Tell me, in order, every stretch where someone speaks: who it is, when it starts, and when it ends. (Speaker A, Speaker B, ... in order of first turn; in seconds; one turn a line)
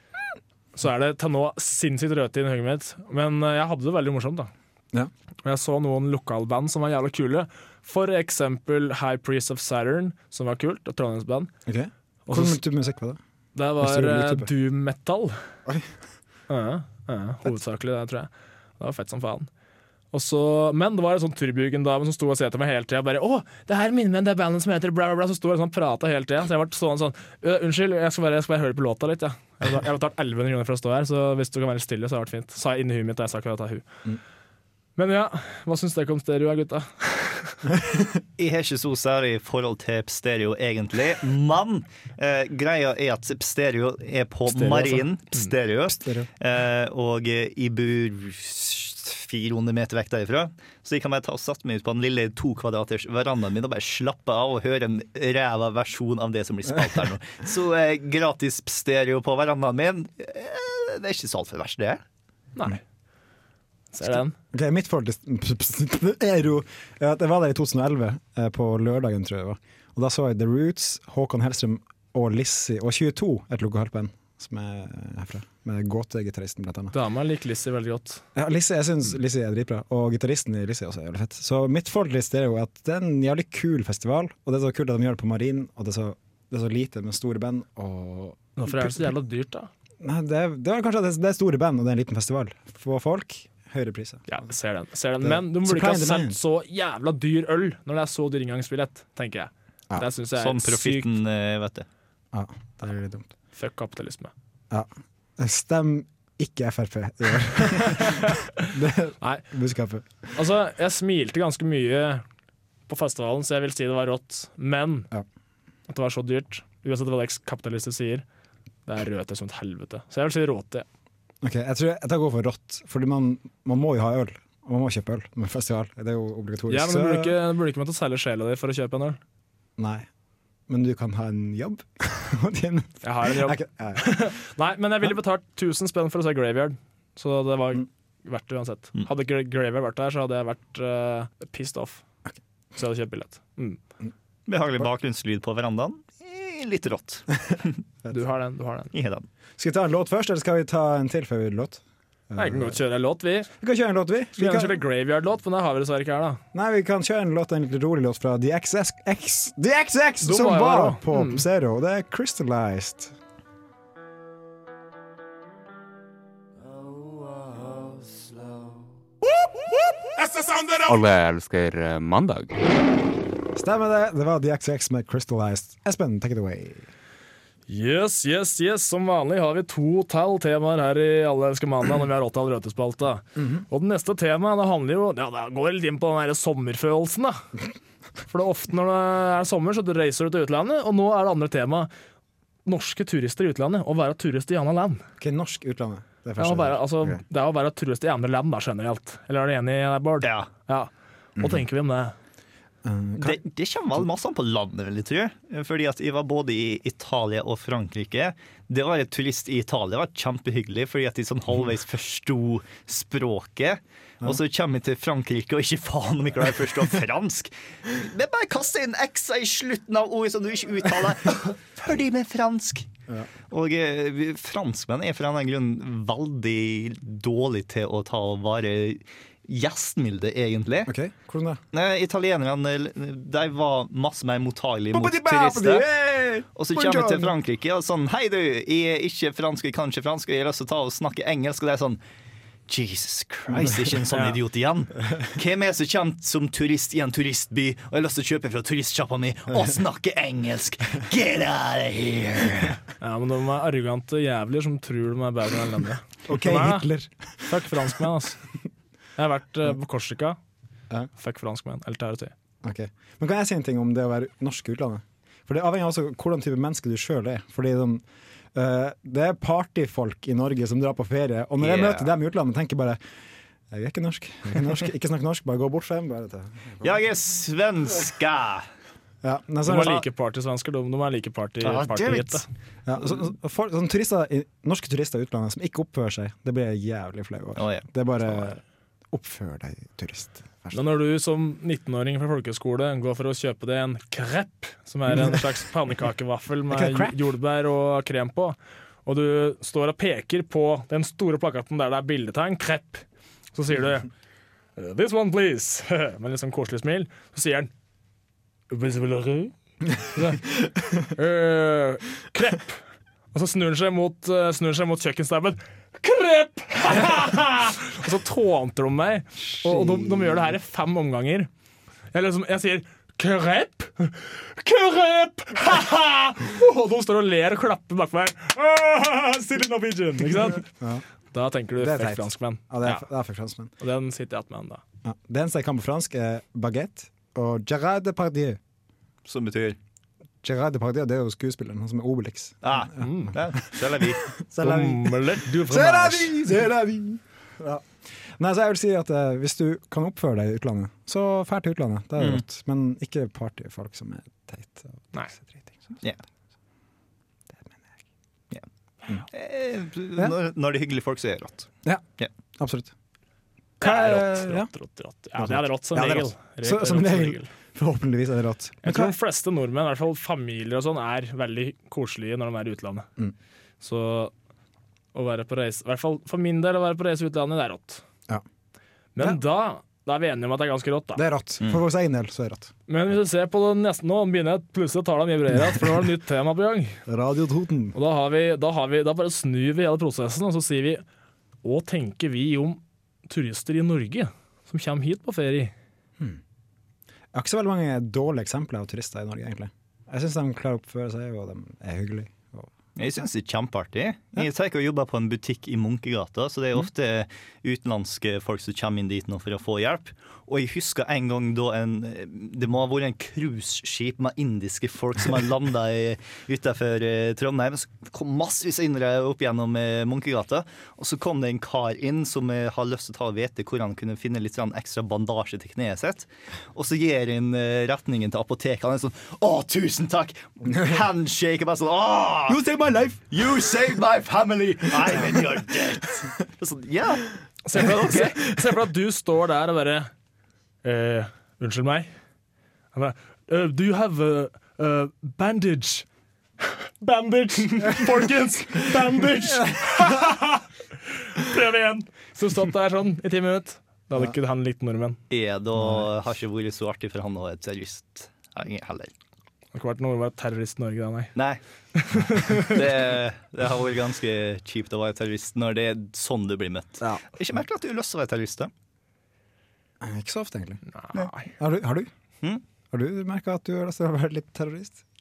Speaker A: 0.8-4.5
Speaker A: 5.4-11.5
Speaker B: 11.7-13.2
Speaker A: 12.3-12.6
Speaker A: 13.5-15.3
Speaker B: 13.8-14.5
Speaker A: 16.5-19.5
Speaker A: 20.1-33.8
Speaker A: 35.0-37.6
Speaker B: 37.8-38.2
Speaker C: 38.4-62.0
Speaker A: 44.5-45.5
Speaker B: 45.9-46.3
Speaker A: 63.9-64.3
Speaker B: 64.1-76.9
Speaker A: 76.9-78.2
Speaker B: 78.3-89.1
Speaker A: 88.6-89.7
Speaker B: 90.0-94.4
Speaker A: 94.3-101.1
Speaker B: 95.2-96.4
Speaker C: 100.3-101.8
Speaker B: 102.3-103.3
Speaker A: 103.5-104.3
Speaker B: 104.7-110.0
Speaker A: 107.7-108.4
Speaker A: 110.3-112.2
Speaker A: 112.9-115.1
Speaker A: 115.9-118.2
Speaker A: 118.8-120.8
Speaker B: 121.4-127.3
Speaker A: 126.7-129.2
Speaker B: 129.8-130.1
Speaker B: 130.7-134.3
Speaker A: 133.0-142.0
Speaker A: 142.8-143.8
Speaker C: 144.5-147.8
Speaker A: 148.1-148.9
Speaker C: 148.9-149.2
Speaker B: 149.6-152.8
Speaker A: 152.3-153.5
Speaker B: 153.6-154.8
Speaker A: 154.3-156.4
Speaker B: 156.5-163.1
Speaker A: 160.2-161.4
Speaker D: 170.2-172.6
Speaker B: 173.5-176.9
Speaker A: 177.7-187.4
Speaker A: 188.3-191.9
Speaker A: 192.7-195.0
Speaker B: 195.2-197.2
Speaker A: 196.4-202.1
Speaker C: 200.2-200.5
Speaker B: 201.4-201.6
Speaker B: 202.8-203.4
Speaker C: 203.2-222.9
Speaker C: 223.5-230.9
Speaker B: 230.8-231.6
Speaker C: 231.7-235.8
Speaker B: 234.9-237.3
Speaker C: 236.5-242.0
Speaker C: 242.7-252.8
Speaker A: 253.0-256.9
Speaker B: 256.3-257.6
Speaker A: 257.5-258.4
Speaker A: 259.2-260.4
Speaker A: 261.2-262.3
Speaker B: 262.6-273.0
Speaker C: 271.6-272.1
Speaker B: 273.7-276.9
Speaker C: 276.8-278.6
Speaker B: 279.2-280.0
Speaker A: 279.6-282.4
Speaker C: 281.6-282.4
Speaker B: 282.9-288.6
Speaker C: 287.6-287.8
Speaker B: 289.1-290.8
Speaker A: 290.7-303.0
Speaker B: 296.7-297.1
Speaker A: 303.5-304.1
Speaker A: 304.8-307.7
Speaker A: 308.7-309.5
Speaker A: 310.0-312.8
Speaker A: 313.3-321.5
Speaker B: 319.6-320.4
Speaker A: 322.1-330.6
Speaker B: 330.6-331.0
Speaker A: 331.3-333.1
Speaker B: 331.8-333.7
Speaker A: 333.8-334.8
Speaker B: 335.0-338.6
Speaker C: 339.2-339.8
Speaker B: 340.4-343.4
Speaker C: 342.6-344.2
Speaker A: 343.0-343.3
Speaker B: 344.0-356.0
Speaker A: 344.6-346.5
Speaker B: 357.6-357.9
Speaker C: 359.3-362.3
Speaker B: 362.6-362.9
Speaker B: 363.8-364.7
Speaker A: 363.8-367.5
Speaker B: 365.4-369.1
Speaker A: 368.8-373.1
Speaker A: 373.8-374.3
Speaker A: 375.1-378.0
Speaker A: 379.1-381.2
Speaker B: 381.1-382.7
Speaker A: 382.9-387.0
Speaker B: 387.1-387.9
Speaker A: 387.9-391.0
Speaker A: 391.6-395.7
Speaker B: 397.3-402.7
Speaker C: 402.9-432.6
Speaker B: 432.5-433.3
Speaker C: 433.3-438.3
Speaker A: 437.6-440.1
Speaker A: 440.8-442.1
Speaker A: 442.9-446.1
Speaker A: 447.0-450.6
Speaker A: 451.2-455.2
Speaker C: 455.3-459.1
Speaker A: 459.7-461.3
Speaker A: 461.9-462.8
Speaker C: 462.6-468.7
Speaker B: 470.0-470.8
Speaker A: 470.9-471.5
Speaker B: 471.5-472.1
Speaker B: 472.9-475.0